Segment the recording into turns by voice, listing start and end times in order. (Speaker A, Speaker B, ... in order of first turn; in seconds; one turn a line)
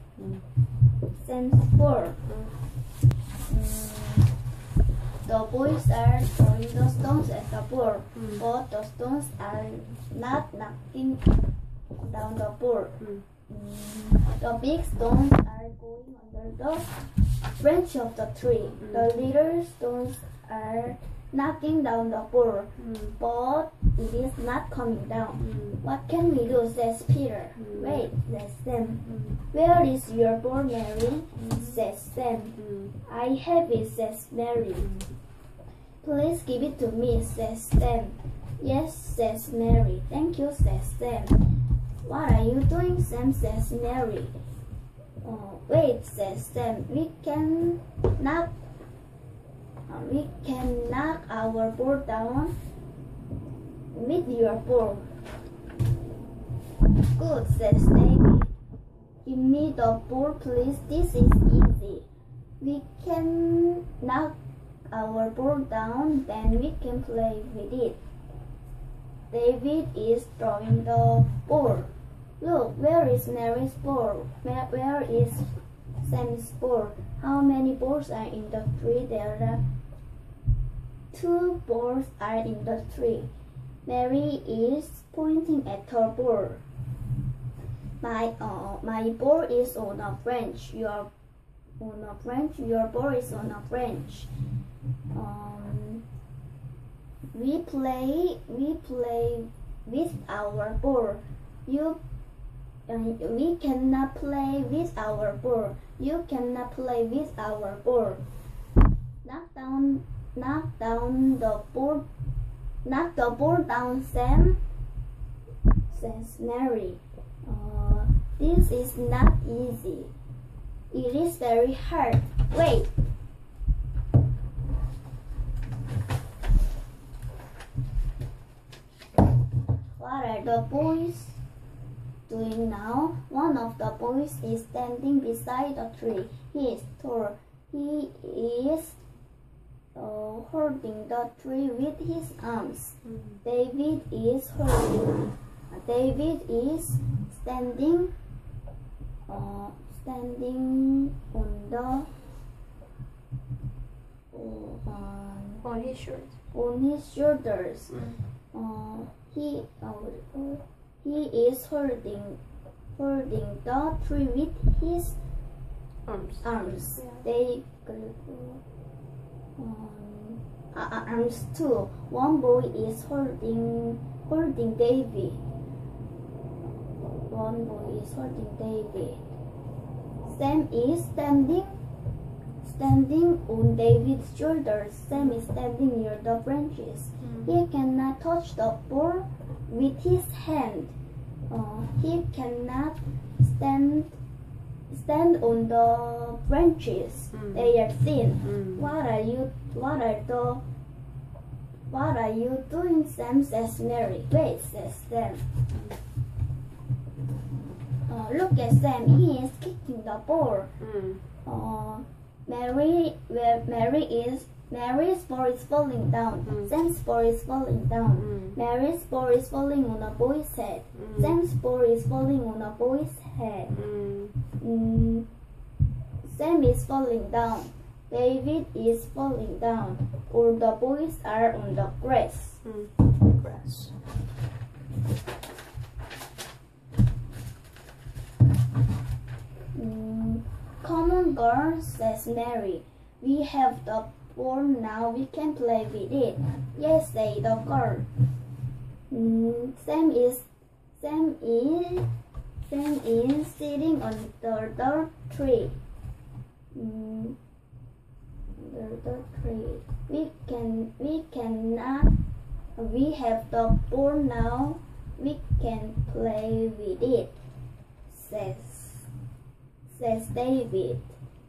Speaker A: 0.2-0.4
Speaker B: 1.1-2.2
Speaker B: 3.5-4.3
Speaker B: 5.2-11.2
Speaker B: 12.0-35.0
Speaker A: 22.8-23.1
Speaker A: 25.4-25.8
Speaker A: 27.6-28.1
Speaker A: 32.6-32.9
Speaker B: 36.0-44.4
Speaker B: 45.2-48.5
Speaker B: 49.9-52.5
Speaker B: 53.9-55.1
Speaker B: 57.1-58.5
Speaker B: 59.2-62.0
Speaker B: 62.6-64.3
Speaker B: 64.9-68.0
Speaker B: 69.3-79.6
Speaker B: 81.1-83.3
Speaker B: 83.8-86.6
Speaker B: 88.0-91.1
Speaker B: 91.8-94.3
Speaker B: 95.1-96.0
Speaker B: 97.3-102.0
Speaker B: 102.9-108.2
Speaker B: 109.2-112.0
Speaker B: 112.8-114.6
Speaker B: 115.9-120.1
Speaker B: 120.9-122.9
Speaker B: 129.9-131.4
Speaker B: 132.3-139.0
Speaker B: 139.9-148.1
Speaker B: 149.3-152.1
Speaker B: 154.3-155.6
Speaker A: 155.6-156.3
Speaker B: 156.5-162.4
Speaker B: 162.9-165.2
Speaker A: 166.1-166.5
Speaker B: 166.4-168.6
Speaker B: 169.6-175.4
Speaker B: 177.3-179.3
Speaker B: 180.2-181.7
Speaker B: 182.6-190.9
Speaker B: 191.5-194.2
Speaker B: 194.9-200.6
Speaker A: 197.3-197.7
Speaker A: 198.4-198.8
Speaker B: 201.9-205.4
Speaker B: 208.1-210.7
Speaker A: 210.8-211.2
Speaker B: 211.4-223.7
Speaker A: 218.2-218.5
Speaker A: 221.0-221.3
Speaker A: 223.7-224.3
Speaker B: 224.6-225.3
Speaker B: 226.2-232.6
Speaker A: 232.6-233.9
Speaker B: 239.7-248.1
Speaker B: 249.1-250.4
Speaker B: 251.0-252.1
Speaker B: 252.6-255.8
Speaker B: 256.7-257.4
Speaker B: 258.6-262.1
Speaker B: 262.8-267.3
Speaker B: 268.1-269.1
Speaker B: 269.9-271.2